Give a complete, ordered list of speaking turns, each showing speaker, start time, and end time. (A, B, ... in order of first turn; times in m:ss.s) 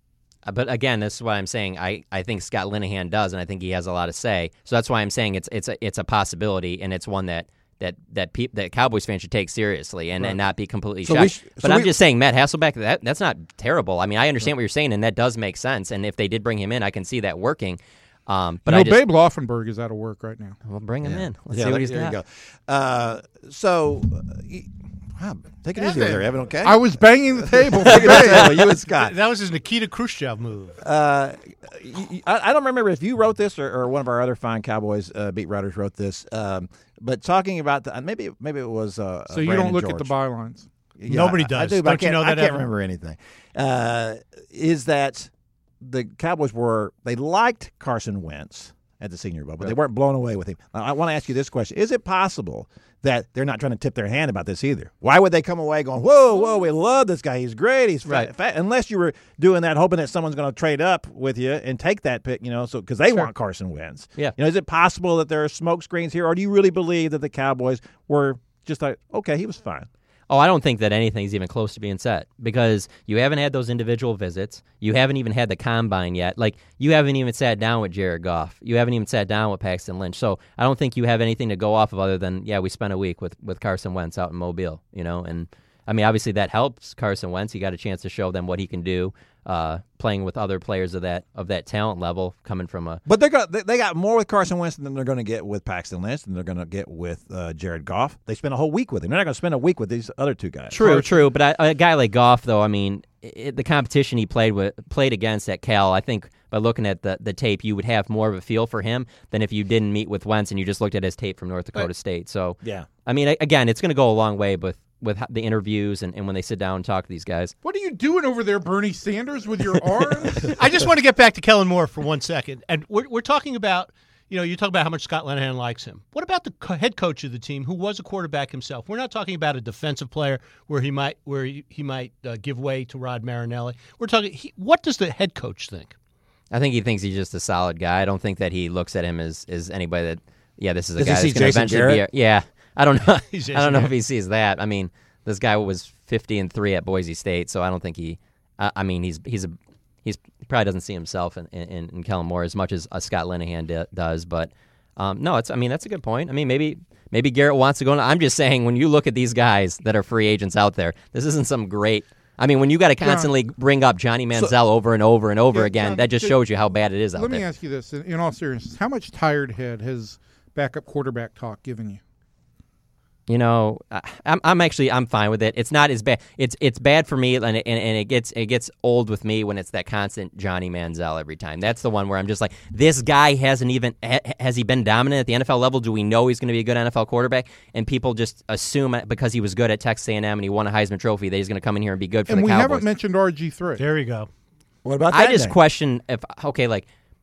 0:00.5-0:19.0 A
0:11.0-0:11.9 B
0:18.7-0:20.6 C
0:20.6-0:22.2 A
0:21.0-0:29.2 B
0:25.8-0:26.3 D
0:26.6-0:28.6 C
0:28.2-0:30.8 D
0:30.8-0:40.1 B
0:39.3-0:40.7 C
0:41.0-1:09.9 B
0:41.1-0:42.7 D
1:10.3-1:33.0 A
1:33.1-1:40.8 B
1:40.7-1:57.5 A
1:40.8-1:41.1 C
1:52.6-1:52.9 B
1:57.6-2:00.6 C
2:00.4-2:15.9 D
2:16.5-2:47.4 A
2:21.0-2:22.0 B
2:23.3-2:24.0 D
2:43.0-2:43.3 C
2:45.5-2:46.4 C
2:47.2-2:52.0 C
2:53.3-3:12.8 A
3:12.3-3:13.8 C
3:13.8-3:14.3 D
3:14.8-3:15.6 B
3:15.1-3:16.9 A